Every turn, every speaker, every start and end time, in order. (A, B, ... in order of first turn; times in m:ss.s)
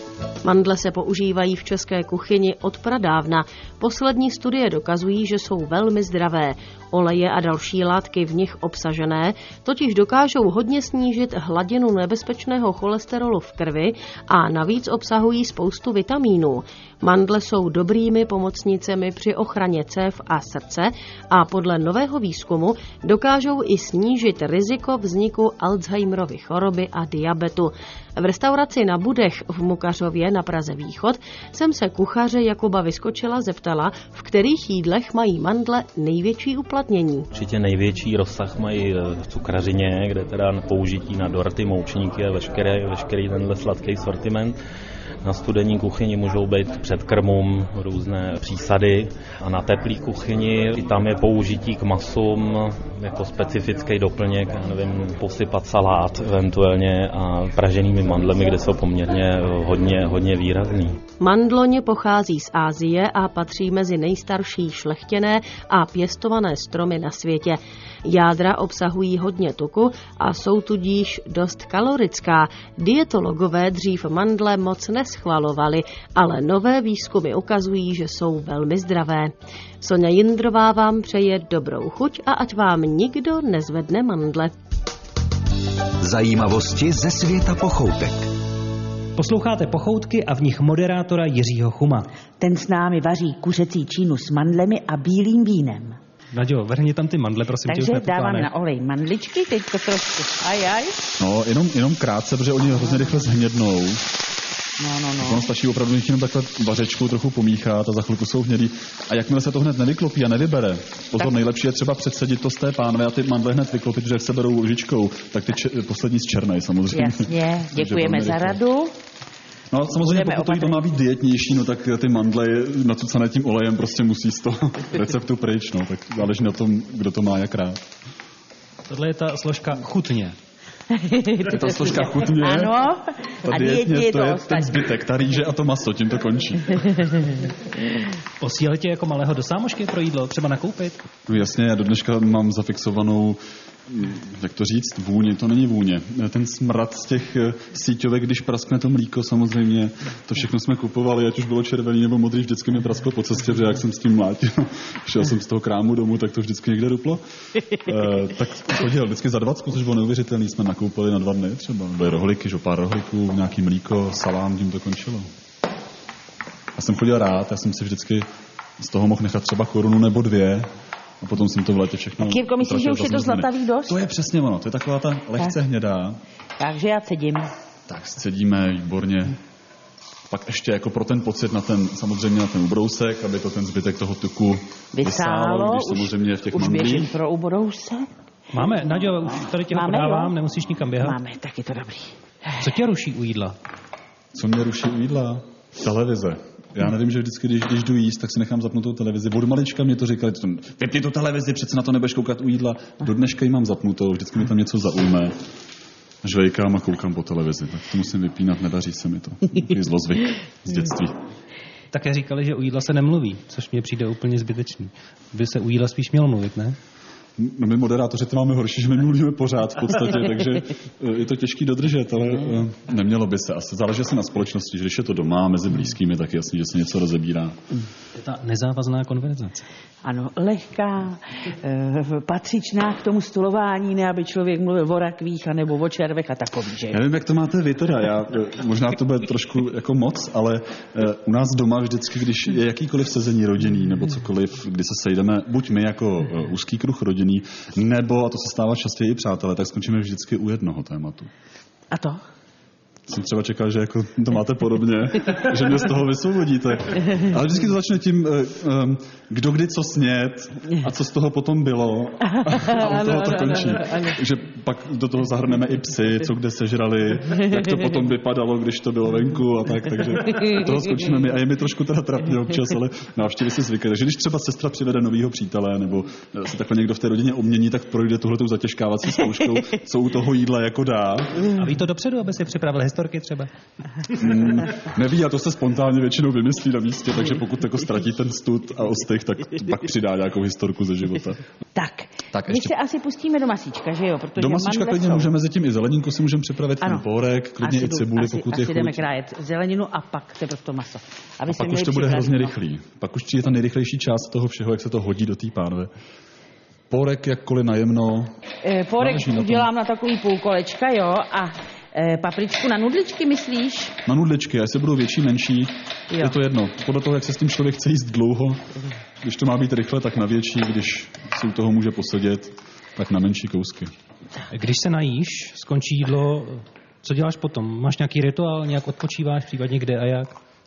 0:00.4-0:37.3 A
0:37.3-0:44.6 B
0:45.2-1:01.0 B
1:01.2-1:24.5 A
1:26.0-1:28.3 C
1:29.2-1:32.1 D
1:32.4-1:36.0 E
1:36.3-1:38.5 D
1:37.6-1:41.0 E
1:41.2-1:44.1 F
1:42.8-1:43.2 E
1:44.8-1:45.4 E
1:45.2-1:58.6 F
1:56.9-1:58.9 E
1:59.7-2:07.8 F
2:00.0-2:00.8 E
2:08.9-2:10.4 D
2:10.9-2:14.9 E
2:11.4-2:12.8 F
2:13.4-2:17.2 F
2:18.4-2:21.0 D
2:21.3-2:37.2 F
2:37.8-2:45.3 F
2:46.7-2:48.3 F
2:48.8-2:50.7 F
2:51.2-2:56.2 F
2:52.2-2:54.0 E
2:56.6-2:57.5 E
2:57.9-2:59.4 F
3:00.3-3:07.1 F
3:04.9-3:08.1 E
3:08.5-3:11.2 D
3:09.7-3:10.3 E
3:11.0-3:12.5 E
3:12.6-3:13.6 D
3:14.3-3:25.4 F
3:26.2-3:31.2 F
3:31.9-3:36.8 D
3:37.4-3:47.6 F
3:48.1-3:49.6 D
3:50.0-3:57.0 E
3:56.9-4:11.3 F
4:11.9-4:12.2 E
4:13.1-4:41.6 F
4:22.3-4:24.2 E
4:30.3-4:30.6 E
4:41.5-4:43.5 D
4:44.1-4:51.4 F
4:51.8-4:55.3 E
4:52.3-4:52.7 F
4:54.4-4:59.0 F
4:57.6-5:02.5 E
5:01.5-5:05.9 F
5:06.9-5:08.3 F
5:08.6-5:14.0 E
5:09.0-5:09.7 F
5:14.0-5:18.6 F
5:16.1-5:16.4 E
5:19.2-5:23.9 F
5:24.5-5:30.3 D